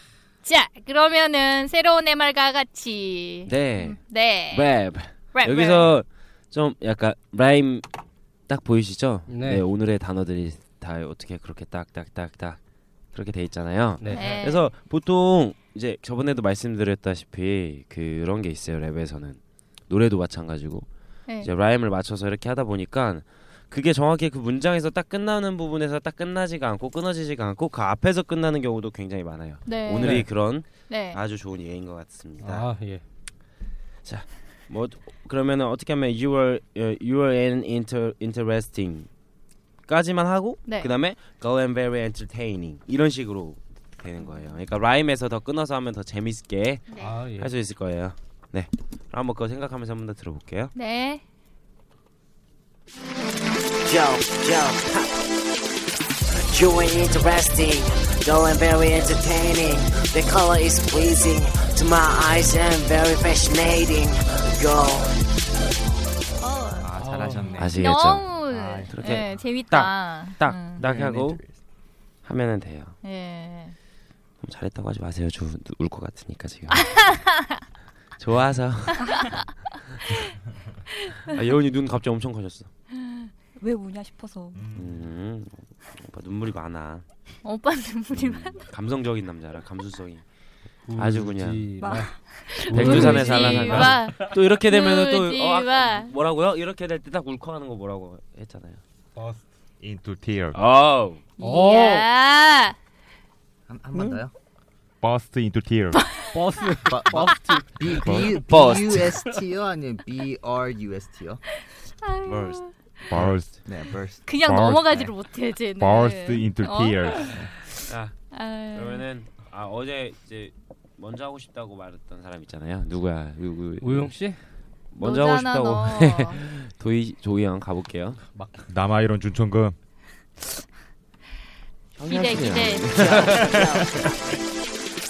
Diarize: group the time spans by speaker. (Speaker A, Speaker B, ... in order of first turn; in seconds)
Speaker A: 0.4-4.7, 5.3-5.9, 14.1-14.7, 29.6-31.2, 40.7-40.9, 44.2-44.5, 46.9-47.2, 50.8-51.2, 66.4-66.9, 67.7-70.8, 73.0-73.8, 76.9-77.6, 87.4-88.6, 92.5-96.1, 101.4-102.8, 112.0-113.1, 114.2-117.4, 118.3-119.0, 125.0-126.4, 132.1-132.9
Speaker B: 3.5-7.9, 8.5-12.6, 13.1-20.9, 21.4-32.7, 34.0-39.1, 39.9-50.7, 67.6-71.4, 72.2-73.0, 74.4-77.0, 78.2-79.4, 81.3-82.7, 84.8-87.0, 88.1-90.2, 91.0-91.7, 92.7-98.8, 100.5-101.2, 112.2-112.6, 117.9-118.2, 118.7-124.1, 124.9-128.2, 131.9-133.6
Speaker C: 9.3-9.7, 14.0-14.4, 30.0-30.3, 32.4-33.0, 47.0-47.5, 66.9-67.6, 90.9-94.4, 101.4-102.1, 106.3-108.4, 123.8-124.4, 128.3-128.7
Speaker D: 53.8-55.2, 56.5-65.1, 132.9-134.1
Speaker E: 66.8-67.8, 68.5-68.9, 70.8-71.6, 103.7-104.3, 106.8-111.4, 113.7-114.2
Speaker F: 83.6-84.7, 91.8-92.5
Speaker G: 84.5-85.1, 99.2-100.6, 105.0-106.2, 108.0-108.8, 113.1-113.6, 114.3-115.1, 115.8-117.5, 128.7-129.8, 133.6-134.2